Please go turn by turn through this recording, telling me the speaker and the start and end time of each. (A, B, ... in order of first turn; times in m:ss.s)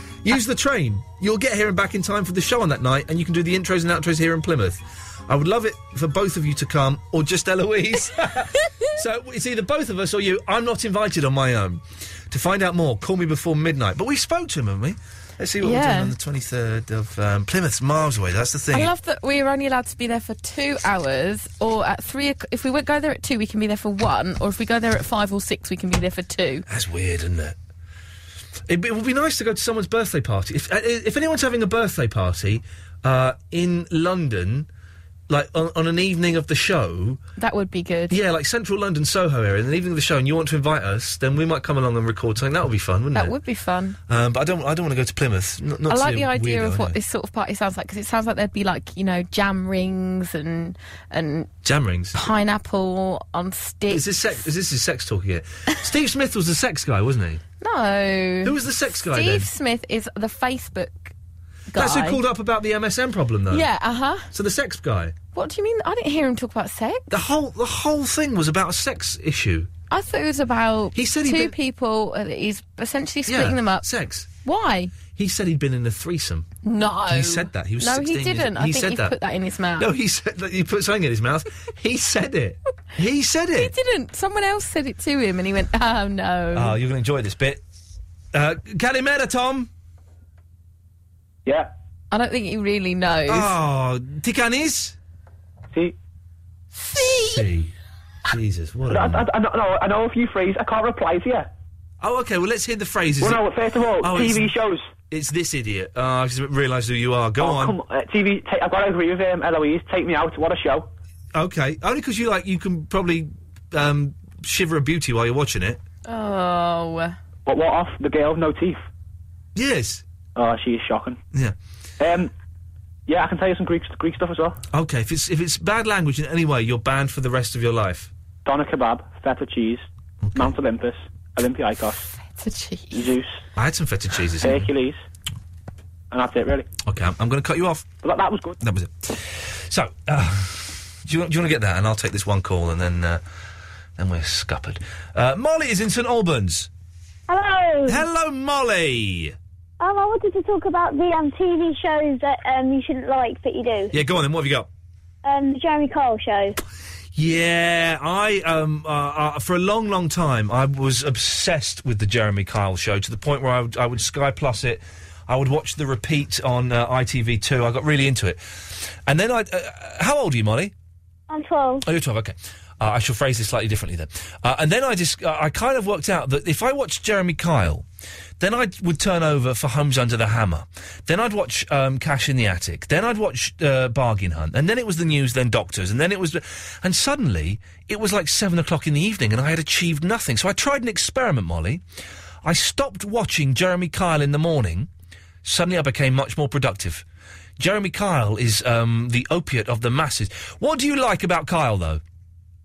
0:00.2-0:18.9 A
0:15.6-0:16.1 B
0:18.7-0:26.6 B
0:26.7-0:27.6 A
0:28.7-0:34.7 A
0:35.3-0:37.2 A
0:37.4-0:38.2 B
0:38.1-0:43.4 A
0:43.2-0:44.0 B
0:44.1-0:47.0 A
0:45.9-0:51.5 B
0:51.6-0:52.2 A
0:52.1-0:54.4 B
0:53.9-0:57.4 A
0:57.6-1:01.1 B
0:58.4-0:59.5 A
1:01.7-1:02.2 B
1:01.7-1:03.7 A
1:03.5-1:04.3 B
1:04.3-1:05.1 A
1:05.4-1:07.1 B
1:07.1-1:09.7 A
1:09.9-1:13.9 B
1:11.0-1:11.5 A
1:13.3-1:14.3 A
1:14.4-1:15.0 B
1:15.1-1:16.5 A
1:16.6-1:19.9 B
1:17.1-1:19.2 A
1:19.8-1:23.7 A
1:23.6-1:26.7 B
1:26.5-1:27.6 A
1:28.3-1:29.7 A
1:32.1-1:33.5 B
1:33.3-1:35.0 A
1:36.8-1:37.4 B
1:37.0-1:37.7 A
1:38.3-1:39.3 A
1:38.9-1:41.5 C
1:42.0-1:43.5 A
1:43.2-1:44.9 C
1:44.0-1:44.6 A
1:45.1-1:47.8 A
1:47.4-1:50.9 C
1:51.3-1:55.8 A
1:56.1-1:57.2 B
1:57.5-1:58.8 C
1:59.6-2:00.0 A
2:00.4-2:01.2 C
2:02.0-2:02.3 C
2:03.1-2:04.6 C
2:04.7-2:08.1 A
2:08.4-2:12.1 C
2:10.2-2:10.6 A
2:12.2-2:13.1 B
2:12.9-2:13.4 C
2:13.6-2:14.7 A
2:14.4-2:15.0 C
2:16.1-2:16.7 C
2:16.8-2:17.9 A
2:18.0-2:18.6 C
2:18.6-2:23.2 A
2:24.0-2:26.7 A
2:27.3-2:28.0 D
2:27.9-2:29.4 A
2:29.8-2:34.0 D
2:33.9-2:34.7 A
2:35.2-2:36.6 D
2:37.2-2:50.7 A
2:51.3-2:51.8 D
2:51.8-2:57.8 A
2:58.4-3:11.8 A
3:12.4-3:14.9 A
3:15.4-3:17.0 A
3:17.6-3:22.0 A